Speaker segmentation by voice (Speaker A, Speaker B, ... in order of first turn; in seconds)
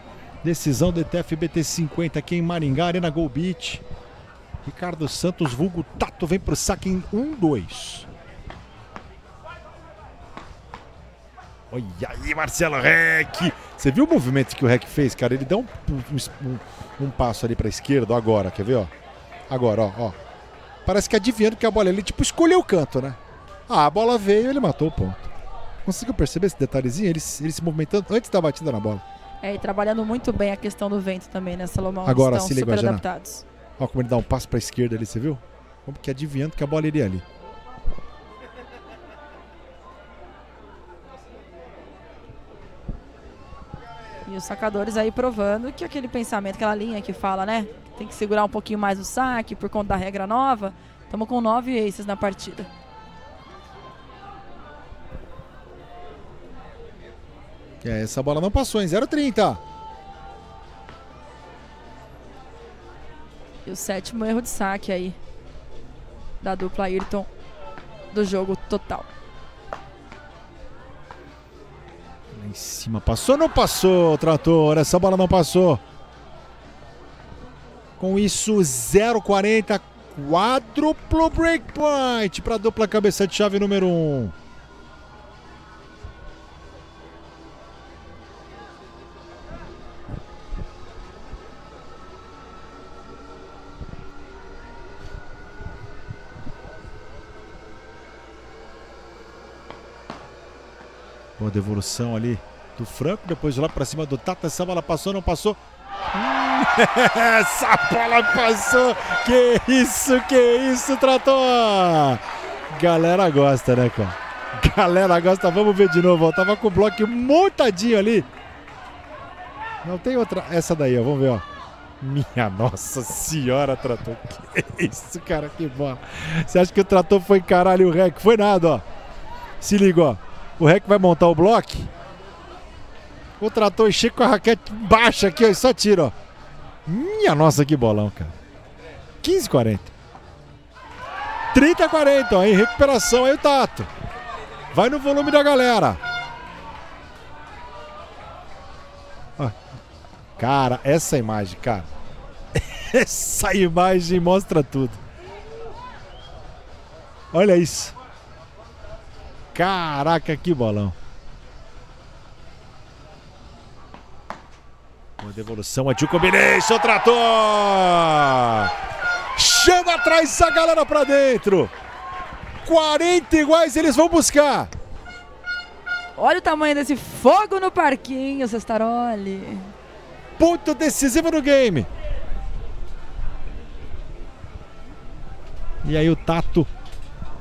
Speaker A: 0.4-3.8, 4.6-8.1, 11.7-18.9, 19.5-20.2, 20.8-25.3, 25.8-29.0, 32.0-33.0, 33.8-37.2, 57.8-59.6, 72.3-75.8, 78.0-84.3, 101.4-105.6, 106.1-118.3, 119.8-121.4, 122.0-128.8, 129.6-131.9, 133.4-136.1, 136.8-138.3, 139.2-139.9, 141.5-143.9, 144.7-146.0, 150.4-151.9, 152.5-155.0, 157.3-157.9, 159.5-160.9, 165.2-168.7, 169.3-171.7, 172.6-174.7, 180.4-181.9, 185.8-186.7
Speaker B: 29.4-33.4, 44.2-52.7, 63.6-65.2, 66.4-67.3, 68.1-69.1, 176.2-179.7